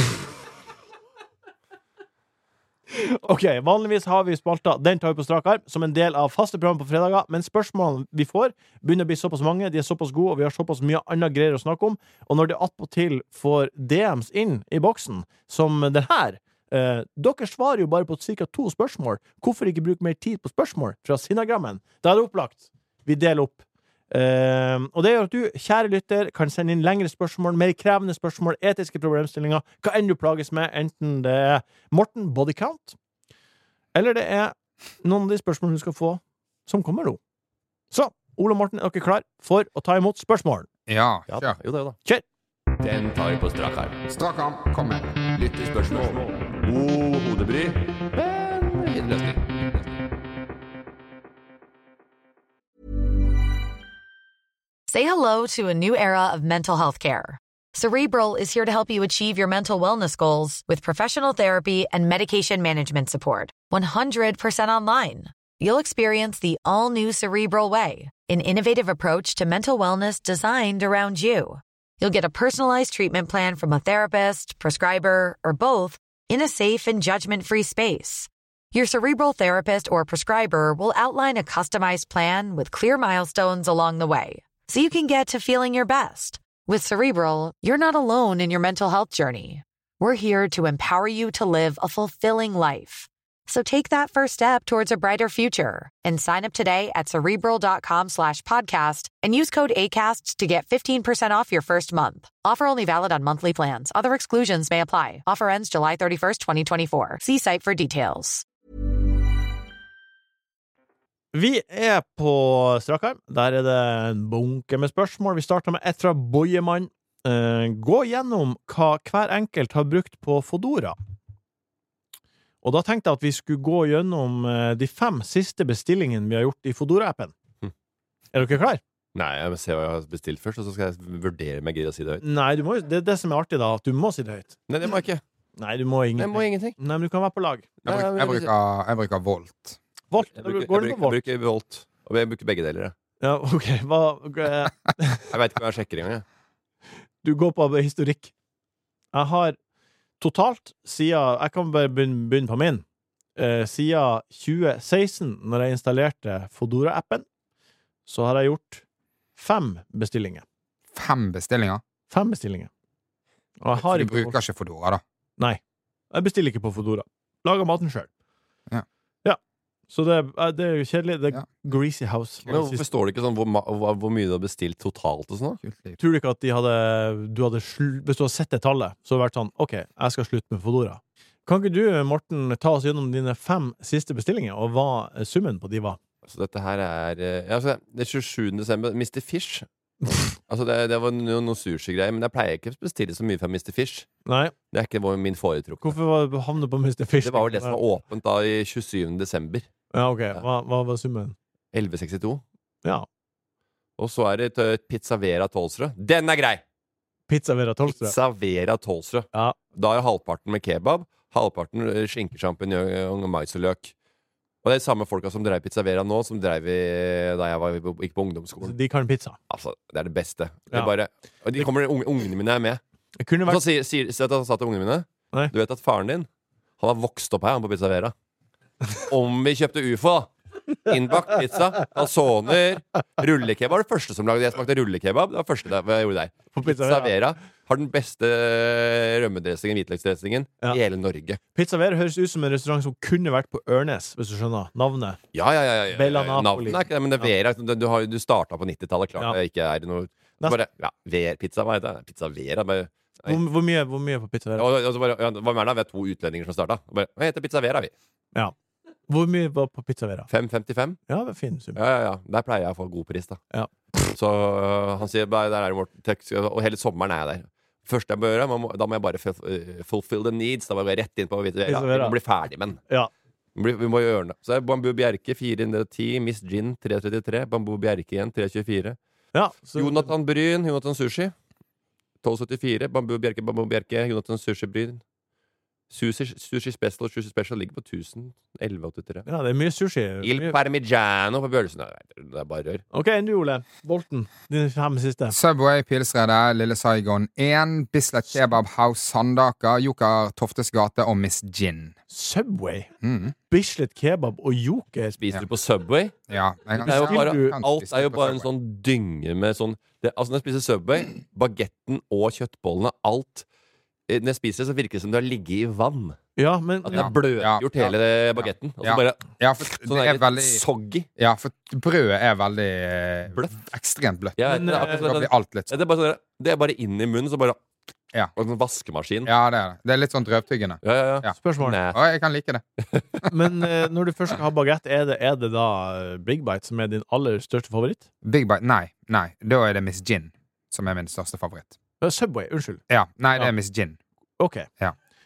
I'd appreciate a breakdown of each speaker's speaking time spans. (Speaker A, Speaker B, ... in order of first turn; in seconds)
Speaker A: 2.9-33.0, 33.9-37.2, 37.9-40.7, 111.3-121.0, 122.6-127.3, 128.3-128.8, 132.2-134.6, 135.6-137.7, 140.1-141.2, 143.2-145.2, 147.2-148.3, 149.1-149.6, 150.2-152.8, 153.4-157.2, 158.1-158.8, 159.4-160.4, 162.1-162.7, 163.6-164.4, 166.1-168.1, 169.9-172.8, 176.0-186.0, 194.2-194.5, 195.8-197.8, 199.9-201.4, 207.3-208.1, 218.6-219.4, 223.2-223.6, 236.5-237.1, 241.6-245.2, 245.9-247.3, 253.2-254.7, 259.1-260.3, 261.1-261.8, 263.5-264.1, 271.7-272.2, 279.3-280.1, 289.2-290.6, 292.9-295.4, 302.1-302.9, 303.5-305.2, 306.8-307.6, 316.4-317.1, 324.5-325.1, 331.4-331.8, 333.3-338.0, 342.0-342.8, 344.4-344.7
Speaker B: 40.9-41.5, 44.1-45.2, 137.8-139.8, 160.9-161.8, 163.7-165.0, 175.6-176.0, 295.3-301.9, 303.0-303.4, 306.3-308.5, 316.9-320.6, 321.2-325.8, 329.2-332.6, 338.2-341.8, 342.9-344.0
Speaker C: 41.3-42.0, 42.8-44.0, 45.3-49.9, 129.1-132.2, 134.7-135.2, 136.2-136.8, 137.9-138.5, 140.3-142.9, 145.3-146.2, 172.5-175.6, 186.2-189.7, 190.5-194.1, 194.7-196.0, 197.2-199.7, 201.7-202.4, 204.0-206.6, 207.9-213.9, 214.6-218.8, 219.5-222.8, 223.4-226.3, 226.8-228.1, 229.0-241.4, 245.3-253.4, 254.6-257.9, 260.3-261.0, 261.8-263.4, 264.1-272.8, 273.6-279.0, 279.8-281.3, 282.2-285.0, 285.9-289.2, 290.2-292.8, 305.2-306.1, 306.8-313.4, 314.1-316.2, 316.9-321.1, 324.4-327.6, 328.4-329.3, 330.8-332.0, 332.8-333.2
Speaker D: 54.9-108.4